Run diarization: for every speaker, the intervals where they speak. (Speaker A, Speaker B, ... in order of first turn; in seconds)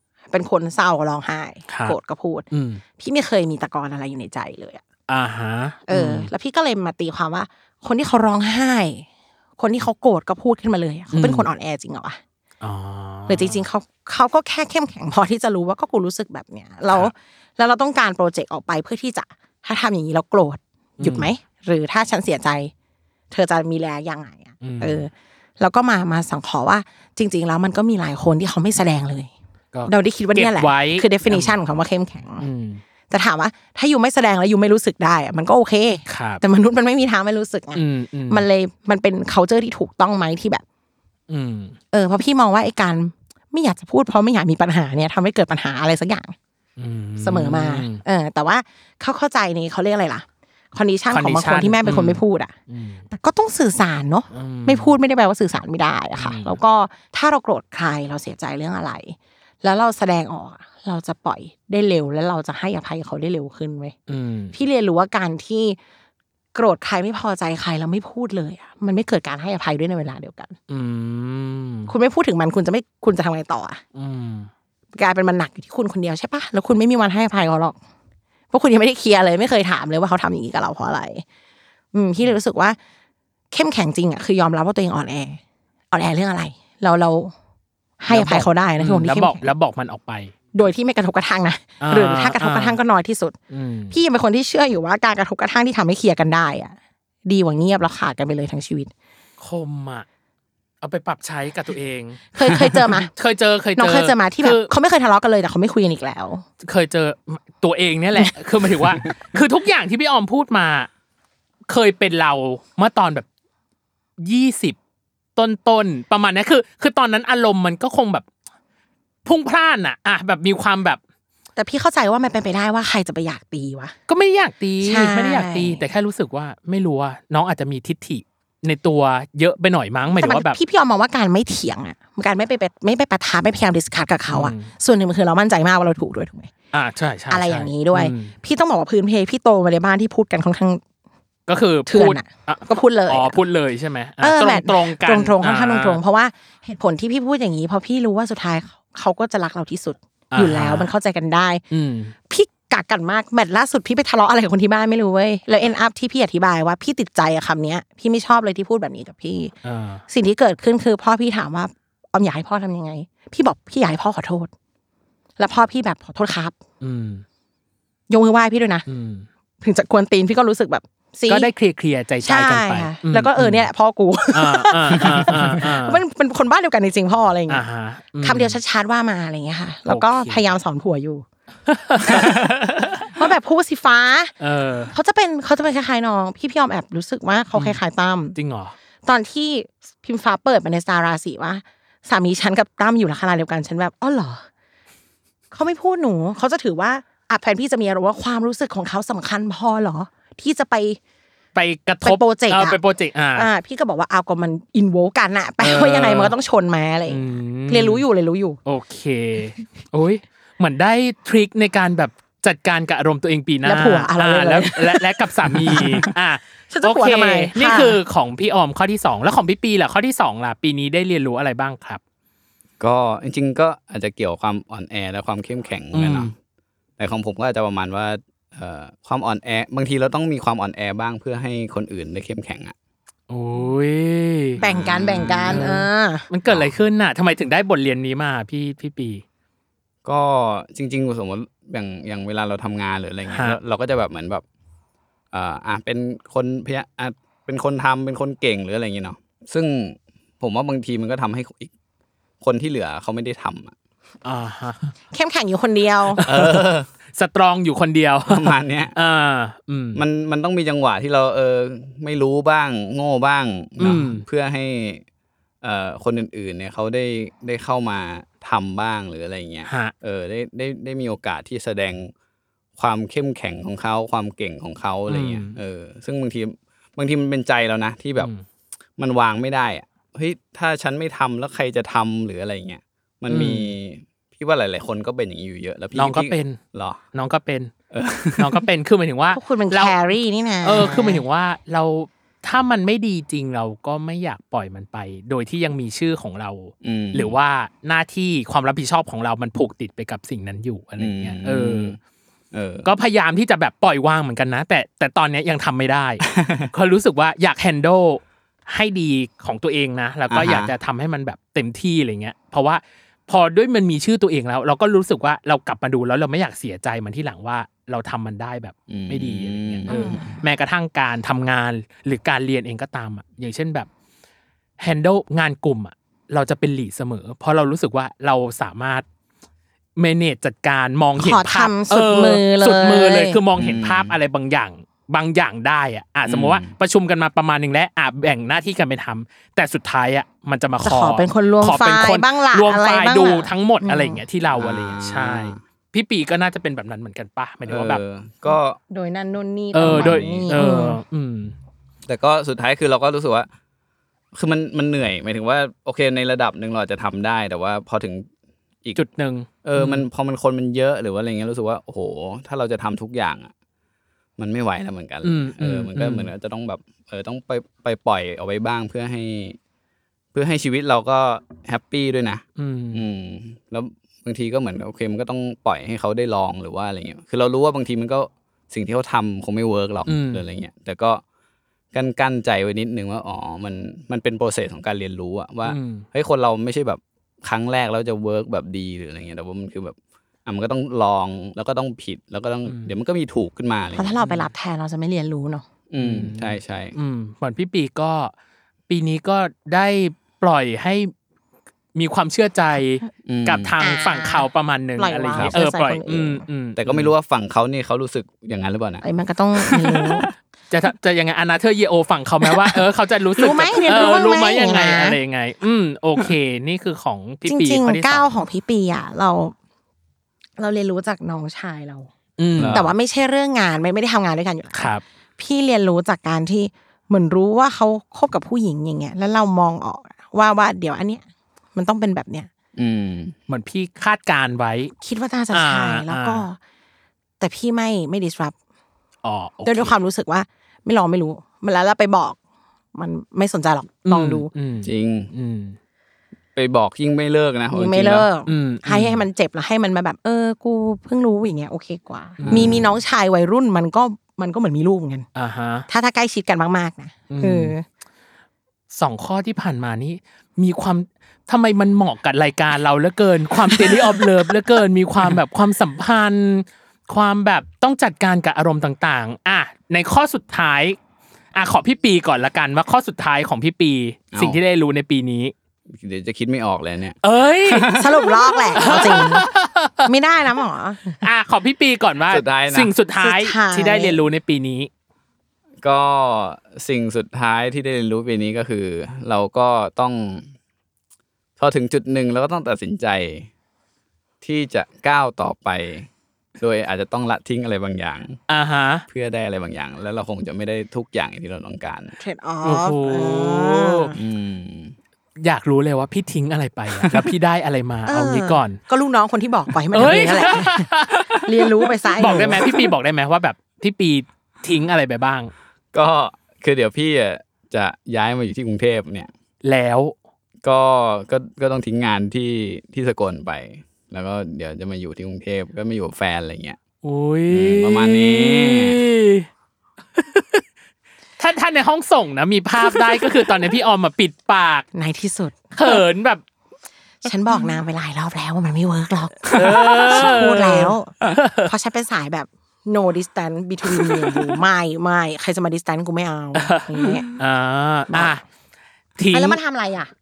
Speaker A: 0.3-2.4, 3.0-4.8, 5.9-9.1, 9.6-12.2, 13.3-22.7, 23.3-29.3, 29.9-32.5, 33.1-40.6, 41.9-46.3, 47.2-52.5, 53.1-63.9, 64.5-65.8, 66.5-70.5, 71.9-73.8, 74.9-77.8, 78.5-81.2, 81.9-82.8, 83.5-85.4, 85.9-87.3, 88.0-89.5, 90.5-93.3, 93.9-96.7, 97.2-98.9, 102.3-103.1, 103.8-106.4, 121.6-123.9, 124.8-125.8, 130.2-136.5, 137.3-140.8, 141.9-143.4, 144.2-151.6, 152.3-159.5, 160.1-164.5, 165.4-166.6, 168.1-168.8, 169.6-171.5, 172.2-177.6, 178.2-181.2, 183.1-184.3, 184.9-188.3, 189.0-194.4, 195.5-201.0, 202.0-202.8, 203.3-208.6, 213.6-215.1, 216.7-218.0, 234.6-236.3, 255.1-256.2, 289.3-291.2, 319.9-320.4, 331.2-333.4, 340.8-344.2, 348.5-351.0, 393.9-395.6, 403.8-404.4, 405.0-406.4, 409.0-410.3, 413.4-415.2, 417.4-419.5, 420.6-422.1, 422.7-431.2, 431.7-432.5, 435.0-436.6, 437.4-438.5, 439.6-442.4, 442.9-444.5, 447.7-455.3, 455.9-457.8, 477.9-479.4, 480.1-481.2, 483.2-484.2, 502.2-504.2, 508.1-510.9, 511.4-512.9, 534.9-536.0, 537.2-547.3, 548.1-548.4, 549.3-550.1
Speaker B: 1.7-1.9, 2.5-2.8, 5.1-6.3, 11.1-11.5, 12.6-13.6, 21.0-21.3, 24.6-25.0, 29.7-31.5, 32.4-32.8, 36.1-36.4, 37.7-38.4, 41.3-41.8, 46.8-48.0, 51.1-53.0, 54.3-54.9, 56.2-56.6, 64.1-64.5, 70.7-71.9, 73.9-74.5, 88.1-90.3, 91.8-92.8, 93.5-94.0, 99.4-100.0, 100.8-104.7, 106.6-110.9, 111.7-113.2, 114.2-114.8, 115.3-118.2, 119.2-121.0, 124.1-130.6, 134.3-134.7, 136.7-138.3, 141.5-146.0, 150.3-150.9, 151.7-152.1, 159.6-160.0, 166.8-167.2, 168.9-169.3, 171.3-173.7, 174.3-176.0, 177.5-178.6, 179.9-180.5, 181.7-183.2, 184.4-184.9, 187.5-187.8, 188.3-188.7, 201.5-203.5, 205.6-206.3, 207.1-208.0, 208.7-222.0, 225.9-226.3, 233.3-234.6, 235.2-239.2, 243.3-243.6, 254.2-254.9, 256.2-260.0, 263.8-264.2, 269.7-269.9, 275.1-275.6, 278.2-278.4, 283.3-283.7, 285.9-286.6, 287.1-287.7, 288.4-290.0, 290.6-301.9, 302.8-323.9, 324.8-329.0, 330.0-348.0, 349.7-351.5, 358.9-360.1, 365.2-366.3, 372.6-373.0, 380.1-380.4, 385.6-386.1, 392.6-392.9, 394.2-394.5, 396.0-398.3, 398.9-401.1, 401.9-407.1, 410.7-418.3, 422.4-422.8, 424.7-425.0, 433.5-434.9, 435.5-436.4, 439.2-439.9, 444.1-445.8, 448.5-449.2, 452.4-452.7, 455.4-455.9, 457.3-457.7, 458.9-471.0, 471.5-475.5, 477.2-478.2, 478.8-480.1, 481.2-484.9, 498.5-499.0, 502.6-504.1, 505.4-508.8, 509.9-511.3, 512.2-515.5, 519.6-520.1, 527.0-529.5, 530.1-530.6, 531.4-534.9, 535.8-536.4, 539.5-541.7, 544.0-544.5, 546.6-548.4, 549.2-549.6
Speaker C: 222.8-226.3, 227.0-232.7, 234.6-235.7, 236.5-236.7, 240.0-244.4, 245.3-251.7, 252.4-253.7, 256.2-256.9, 258.3-258.9, 259.9-265.0, 265.6-272.1, 272.8-278.3, 279.0-287.0, 287.9-288.6, 296.8-297.3, 301.0-302.0, 302.5-302.9, 306.3-306.7, 310.3-310.7, 318.9-320.3, 333.6-334.1, 336.3-336.7, 344.5-345.6, 347.6-348.8, 349.8-350.6, 352.1-353.5, 354.3-358.3, 359.6-363.5, 364.4-369.6, 370.3-381.2, 381.9-394.1, 395.9-396.9, 403.2-403.7, 406.8-409.0, 409.6-410.2, 422.6-422.9, 432.8-433.4, 444.8-445.3, 446.5-448.3, 452.5-452.9, 474.3-474.6, 475.9-479.2, 482.3-482.9, 485.8-490.5, 491.6-493.5, 494.4-498.4, 499.1-502.2, 504.1-504.9, 506.9-507.3, 512.2-512.6, 515.9-519.3, 520.6-526.8, 527.5-529.0